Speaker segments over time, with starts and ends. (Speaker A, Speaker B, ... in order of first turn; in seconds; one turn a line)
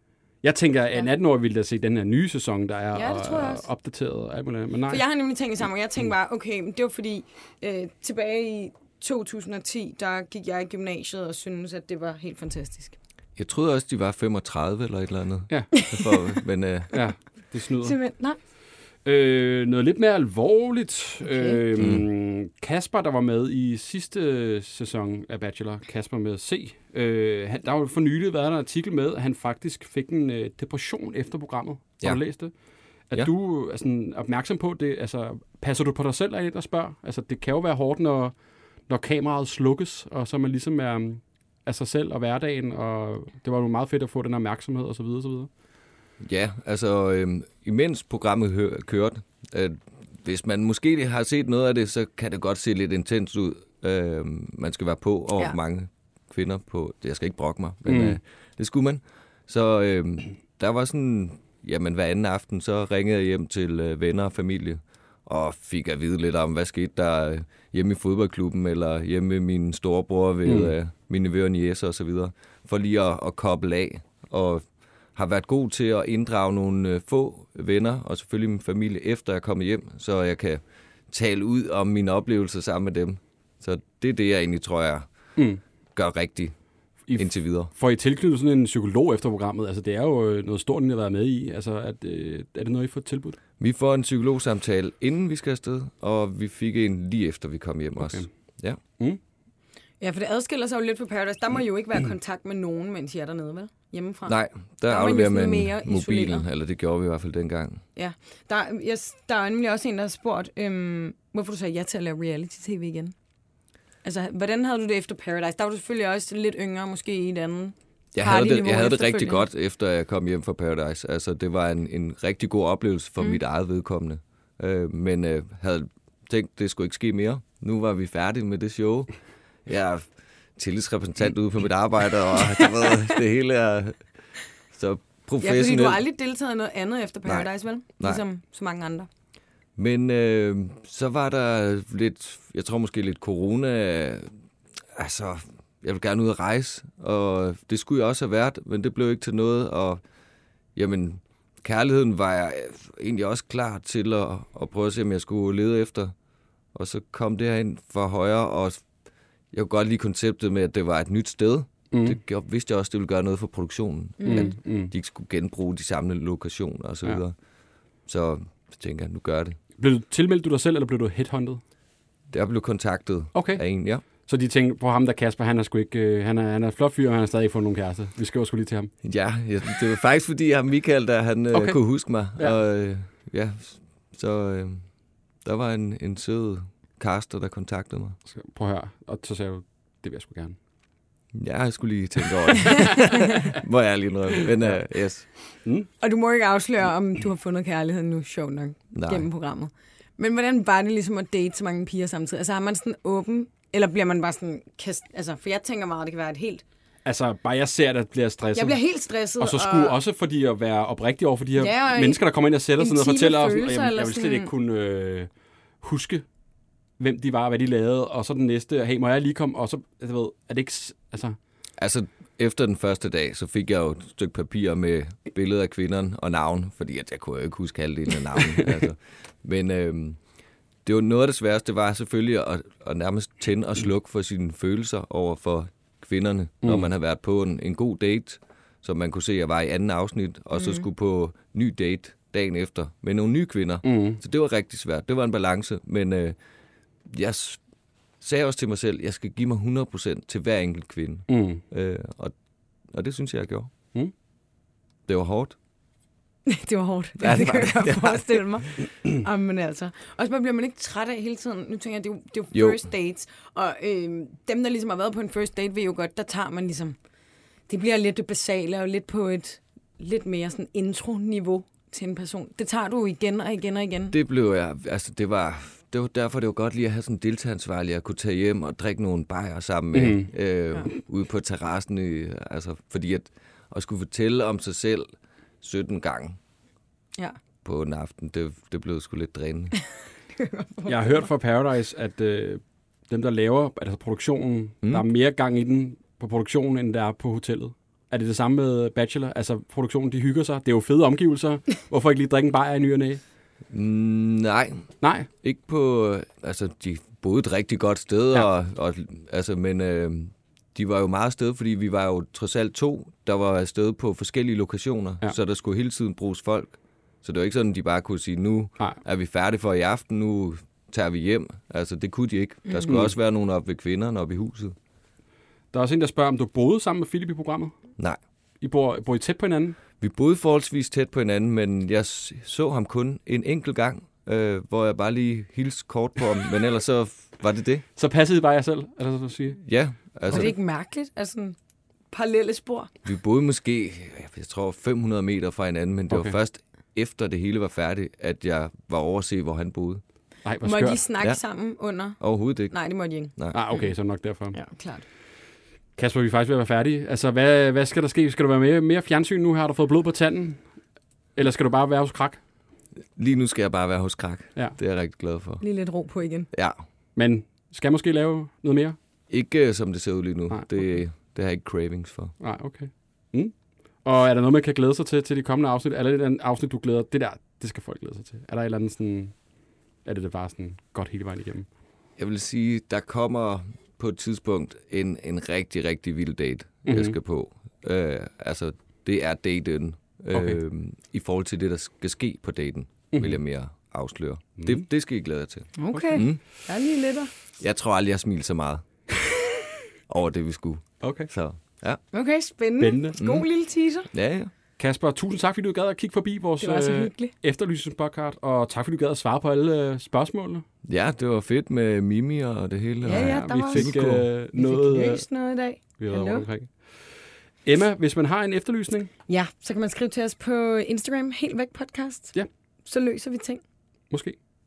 Speaker A: 0.4-5.0
Speaker B: 2.9-3.7
Speaker B: 4.9-12.9
Speaker C: 13.3-16.9
Speaker A: 15.5-15.8
Speaker A: 16.9-18.0
Speaker B: 17.8-18.4
Speaker A: 19.0-32.5
Speaker B: 21.3-21.6
Speaker C: 21.8-22.0
Speaker A: 33.1-38.3
Speaker A: 38.9-45.5
Speaker C: 46.2-74.6
Speaker A: 57.9-58.2
Speaker A: 70.4-70.7
Speaker C: 75.2-85.1
Speaker C: 85.9-86.5
Speaker A: 87.1-93.4
Speaker C: 87.2-87.7
Speaker C: 93.6-98.8
Speaker A: 98.0-98.3
Speaker B: 100.0-106.4
Speaker C: 104.2-107.8
Speaker B: 108.0-113.1
Speaker B: 114.0-119.5
Speaker C: 118.1-129.1
Speaker C: 129.7-134.0
Speaker C: 134.7-136.0
Speaker B: 135.4-139.1
Speaker C: 137.2-138.2
Speaker C: 139.8-144.3
Speaker C: 144.9-150.0
Speaker C: 150.7-156.1
Speaker C: 156.7-158.8
Speaker C: 159.5-167.3
Speaker A: 161.9-162.2
Speaker B: 164.2-164.5
Speaker A: 164.2-164.9
Speaker C: 168.1-169.6
Speaker A: 169.8-171.6
Speaker C: 172.3-174.0
Speaker A: 173.3-178.9
Speaker C: 179.0-184.8
Speaker A: 181.5-181.8
Speaker C: 185.4-188.2
Speaker A: 188.2-190.6
Speaker C: 191.3-195.3
Speaker A: 195.5-195.9
Speaker B: 196.0-206.6
Speaker C: 198.9-199.3
Speaker A: 207.0-208.8
Speaker B: 208.5-210.0
Speaker A: 209.4-215.3
Speaker B: 211.5-214.5
Speaker A: 215.8-216.2
Speaker A: 217.0-221.3
Speaker C: 221.8-230.2
Speaker A: 228.5-228.8
Speaker C: 230.8-246.3
Speaker B: 240.6-240.8
Speaker A: 243.8-244.2
Speaker C: 247.1-247.6
Speaker C: 248.2-252.3
Speaker A: 251.3-251.6
Speaker C: 252.9-253.7
Speaker C: 255.1-255.6
Speaker B: 256.5-266.9
Speaker C: 257.2-258.4
Speaker C: 262.5-262.8
Speaker B: 267.7-274.1
Speaker C: 274.1-285.1
Speaker A: 279.9-280.3
Speaker C: 285.6-286.4
Speaker C: 287.6-289.7
Speaker B: 290.4-291.3
Speaker A: 290.9-303.2
Speaker C: 303.7-324.8
Speaker A: 305.0-305.3
Speaker B: 322.7-322.9
Speaker A: 322.9-323.1
Speaker A: 325.7-327.7
Speaker A: 328.6-329.8
Speaker C: 330.0-337.8
Speaker A: 337.9-339.6
Speaker C: 339.6-340.5
Speaker B: 340.3-341.6
Speaker B: 342.1-342.9
Speaker C: 343.0-350.0
Speaker A: 346.1-346.4
Speaker A: 350.4-351.0
Speaker B: 350.6-353.9
Speaker C: 352.2-352.7
Speaker C: 353.3-353.6
Speaker A: 353.5-354.6
Speaker B: 354.5-355.0
Speaker A: 355.9-360.6
Speaker A: 361.3-362.4
Speaker C: 363.1-365.6
Speaker B: 365.6-366.5
Speaker C: 366.5-366.8
Speaker A: 367.1-368.9
Speaker C: 369.3-372.3
Speaker A: 372.4-379.4
Speaker A: 380.0-381.7
Speaker C: 382.2-396.4
Speaker A: 386.9-387.1
Speaker A: 393.1-393.4
Speaker A: 394.6-394.8
Speaker B: 395.8-397.3
Speaker A: 395.9-396.2
Speaker C: 397.6-398.9
Speaker C: 400.1-402.0
Speaker A: 401.0-401.3
Speaker B: 402.1-404.1
Speaker A: 402.8-403.2
Speaker C: 403.2-403.4
Speaker C: 404.1-404.5
Speaker A: 404.8-410.6
Speaker B: 406.6-407.3
Speaker C: 410.8-414.3
Speaker B: 413.0-414.0
Speaker A: 413.1-415.2
Speaker B: 414.5-416.4
Speaker A: 416.0-419.1
Speaker B: 419.3-423.6
Speaker A: 424.1-424.4